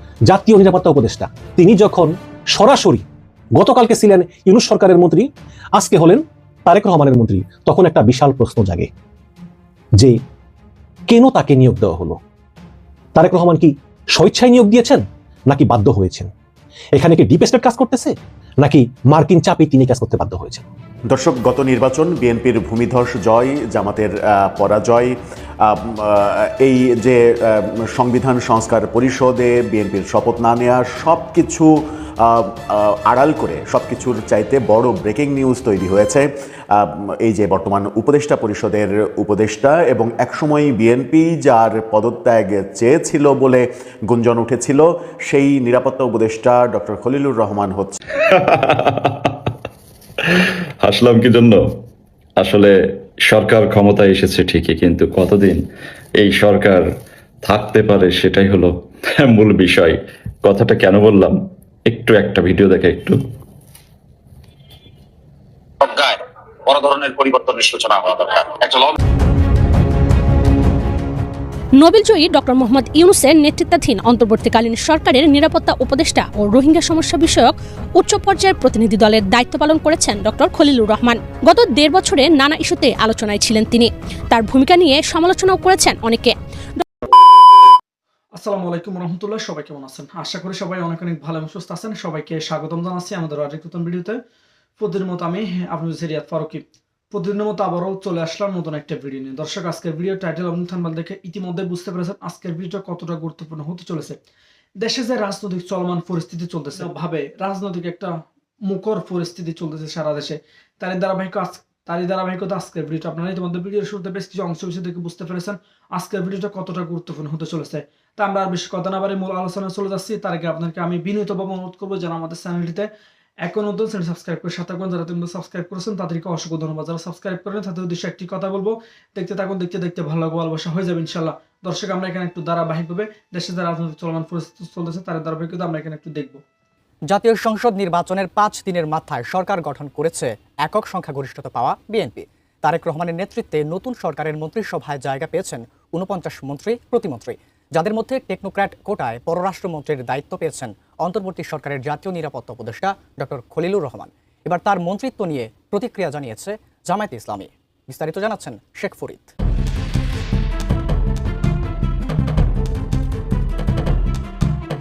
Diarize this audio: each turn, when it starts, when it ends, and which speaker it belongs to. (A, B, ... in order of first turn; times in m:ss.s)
0:00.3-0:08.9 A
0:11.1-0:12.2 A
0:13.2-0:16.3 A
0:16.9-0:20.6 A
0:21.1-0:48.0 B
0:48.2-0:49.5 C
0:50.2-0:51.6 C
0:52.4-0:52.7 C
0:53.3-0:55.6 C
0:56.2-0:56.8 C
0:57.4-1:03.2 C
1:05.8-1:09.0 D
1:11.8-1:26.8 E
1:28.3-1:34.2 F
1:34.8-1:44.2 F
1:44.8-1:48.1 F
1:48.7-2:02.9 F
2:03.4-2:16.4 F
2:17.1-2:39.3 G